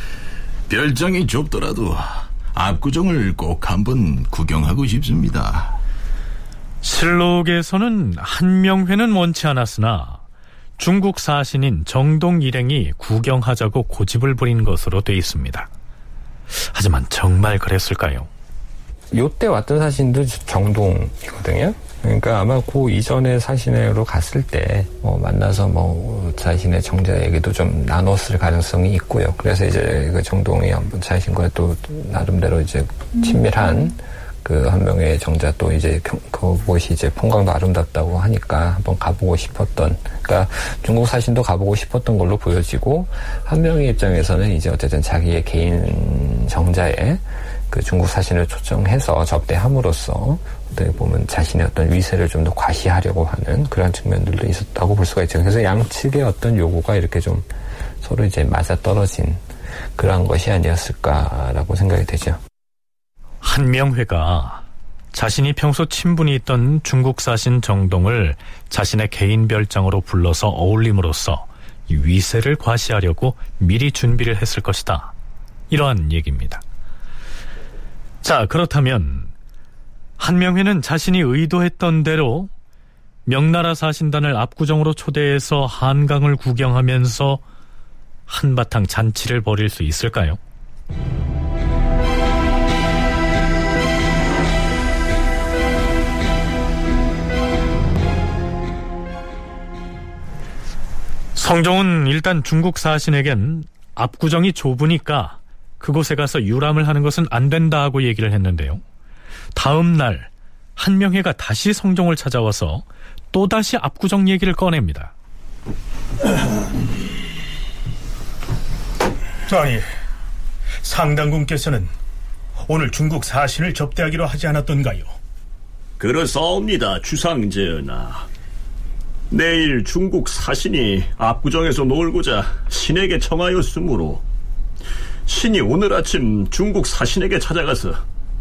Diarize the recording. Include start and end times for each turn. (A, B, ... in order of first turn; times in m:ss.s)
0:00.7-0:05.8 A
0:06.8-0:10.2 B
0:10.8-0:15.7 B
0:16.5-0:18.3 B
0:19.1-0:59.4 C
1:00.0-1:02.4 C
1:03.4-1:15.1 B
1:15.7-1:16.6 B
1:18.2-1:19.3 B
1:20.2-1:22.5 B
1:23.3-1:27.4 B
1:28.3-1:30.4 B
1:41.4-1:48.8 B
1:49.6-1:55.1 B
1:59.5-1:59.8 D
2:00.8-2:01.9 D
2:02.7-2:05.1 D
2:06.0-2:08.3 E
2:09.3-2:14.2 E
2:15.3-2:18.0 E